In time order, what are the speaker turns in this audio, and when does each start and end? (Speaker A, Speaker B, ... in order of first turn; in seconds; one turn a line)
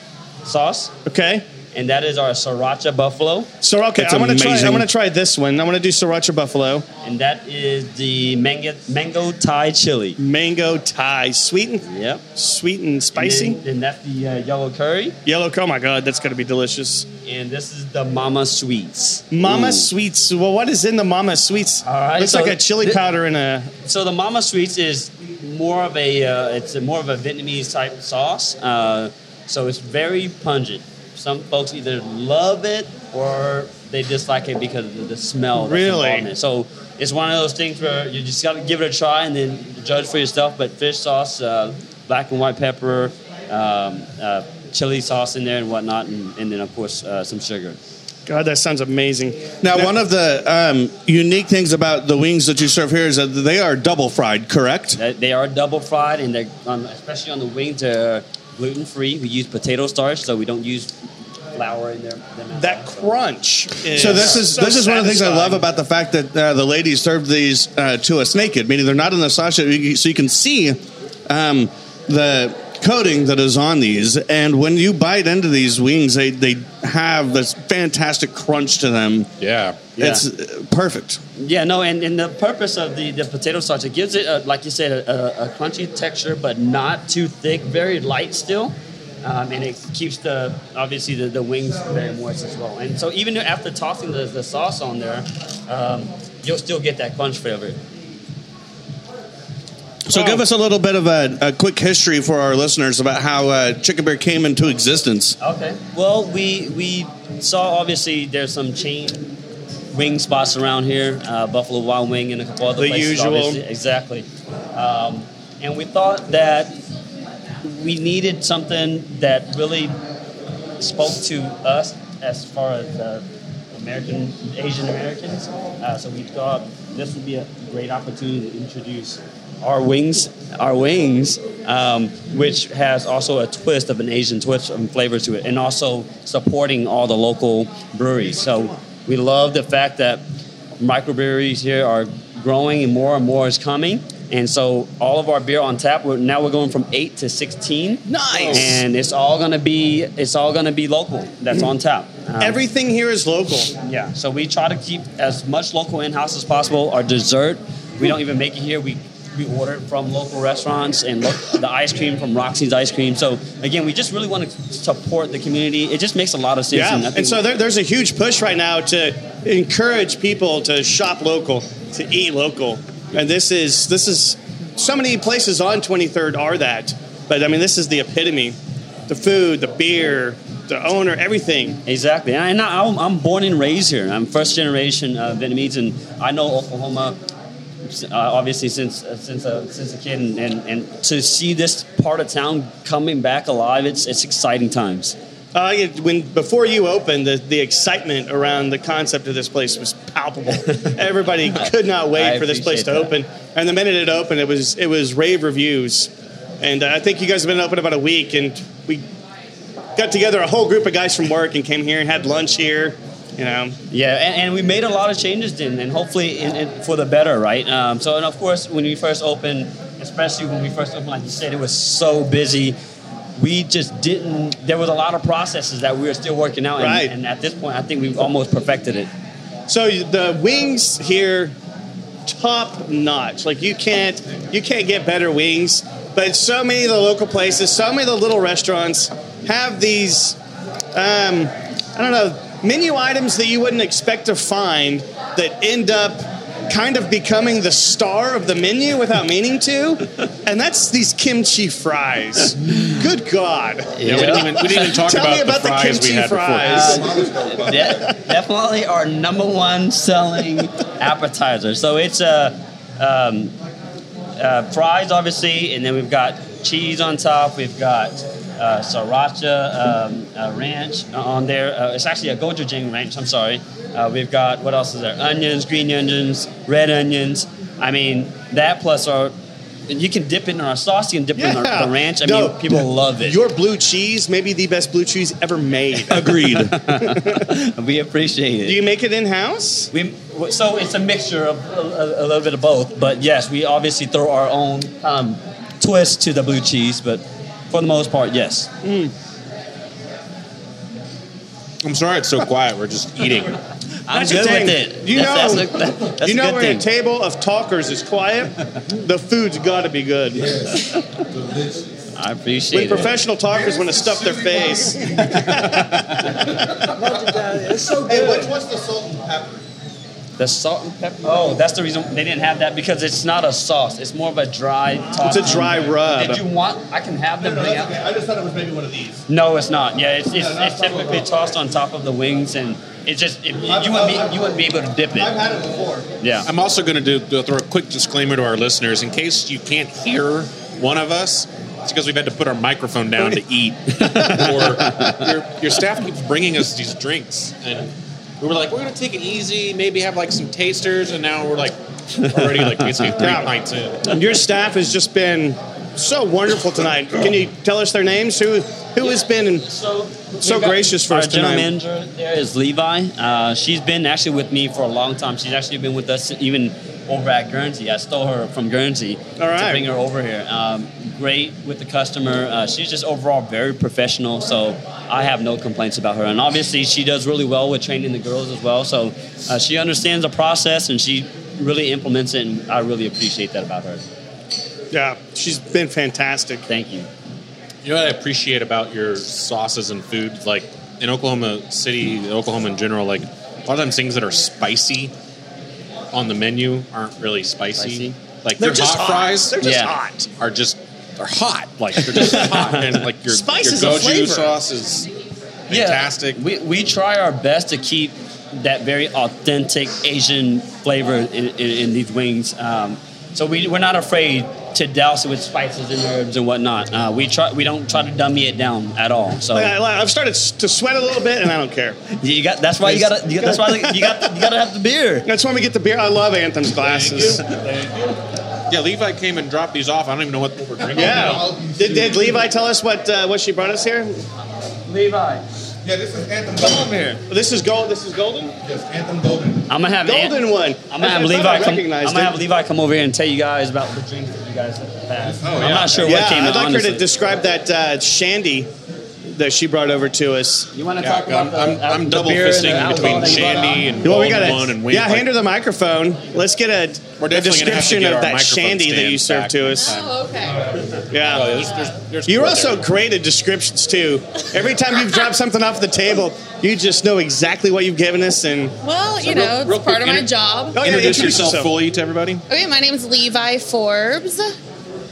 Speaker A: 0.4-0.9
Speaker B: 1.1-1.4
Speaker A: 1.7-3.5
Speaker B: 3.6-6.8
Speaker C: 3.9-4.9
Speaker A: 7.0-10.2
Speaker B: 10.2-13.6
Speaker A: 11.8-12.2
Speaker A: 13.1-15.2
Speaker B: 15.2-17.1
Speaker A: 17.2-19.9
Speaker B: 19.3-23.7
Speaker A: 21.8-23.0
Speaker A: 23.8-47.8
Speaker B: 35.6-36.2
Speaker B: 48.2-49.9
Speaker C: 49.6-55.0
Speaker A: 54.9-60.9
Speaker A: 61.5-63.2
Speaker B: 62.5-65.6
Speaker C: 63.9-79.3
Speaker A: 63.9-64.7
Speaker D: 79.4-79.8
Speaker C: 80.0-81.2
Speaker A: 80.0-80.2
Speaker A: 81.4-97.8
Speaker C: 100.1-105.3
Speaker A: 100.1-100.4
Speaker A: 105.4-109.3
Speaker A: 109.9-116.7
Speaker B: 112.8-113.6
Speaker A: 117.6-120.0
Speaker A: 120.8-140.2
Speaker A: 140.8-152.6
Speaker B: 148.1-148.8
Speaker B: 152.4-153.7
Speaker A: 153.8-167.4
Speaker B: 166.7-178.6
Speaker B: 179.1-181.8
Speaker A: 181.8-187.2
Speaker A: 187.8-195.2
Speaker B: 195.5-206.1
Speaker A: 201.5-203.2
Speaker B: 206.6-209.0
Speaker B: 209.9-213.8
Speaker A: 213.9-222.8
Speaker A: 223.3-229.1
Speaker B: 226.8-227.1
Speaker B: 229.7-231.5
Speaker B: 232.2-240.4
Speaker B: 240.9-257.2
Speaker A: 253.9-254.6
Speaker D: 254.0-257.0
Speaker A: 256.6-263.5
Speaker E: 257.1-258.1
Speaker A: 264.4-279.3
Speaker A: 279.9-283.4
Speaker B: 281.4-287.4
Speaker A: 286.1-288.8
Speaker C: 286.1-286.7
Speaker B: 288.6-289.9
Speaker A: 289.9-298.7
Speaker B: 298.8-299.1
Speaker D: 301.8-303.6
Speaker A: 304.1-306.9
Speaker B: 304.1-310.5
Speaker E: 310.3-312.0
Speaker A: 312.1-313.2
Speaker B: 312.7-316.0
Speaker E: 314.0-315.4
Speaker A: 315.5-316.6
Speaker C: 317.9-318.9
Speaker E: 319.0-319.5
Speaker A: 320.4-328.0
Speaker B: 325.2-326.4
Speaker C: 325.3-326.4
Speaker C: 327.4-329.2
Speaker A: 329.3-335.4
Speaker C: 330.4-331.2
Speaker C: 333.7-334.6
Speaker C: 335.1-336.1
Speaker A: 336.2-336.5
Speaker D: 336.4-354.1
Speaker A: 344.0-345.3
Speaker A: 352.4-353.3
Speaker B: 353.2-353.5
Speaker B: 354.0-359.7
Speaker A: 359.0-384.0
Speaker B: 360.4-361.7
Speaker B: 369.4-369.9
Speaker B: 384.9-386.6
Speaker A: 386.7-387.1
Speaker D: 387.8-395.1
Speaker D: 396.1-399.6
Speaker A: 397.8-398.1
Speaker B: 398.6-400.3
Speaker A: 399.6-399.9
Speaker D: 400.4-405.1
Speaker B: 402.1-404.6
Speaker D: 405.7-406.4
Speaker A: 405.7-419.7
Speaker B: 419.5-422.0
Speaker A: 422.2-425.3
Speaker B: 422.8-424.2
Speaker B: 425.2-427.4
Speaker D: 426.8-428.1
Speaker D: 428.7-431.4
Speaker B: 430.9-434.2
Speaker E: 430.9-432.3
Speaker A: 434.9-435.4
Speaker E: 435.8-437.2
Speaker B: 437.3-438.5
Speaker E: 438.6-439.7
Speaker A: 439.7-447.0
Speaker B: 440.0-442.4
Speaker D: 445.4-446.1
Speaker E: 445.4-445.8
Speaker B: 446.0-448.7
Speaker B: 449.2-450.7
Speaker A: 450.7-453.9
Speaker D: 451.0-455.3
Speaker B: 454.0-460.0
Speaker D: 457.2-460.1
Speaker F: 459.7-460.8
Speaker B: 461.1-461.6
Speaker D: 461.2-462.9
Speaker F: 461.5-462.0
Speaker B: 462.3-468.7
Speaker F: 468.8-470.8
Speaker D: 469.2-472.4
Speaker B: 470.7-471.7
Speaker F: 472.5-474.5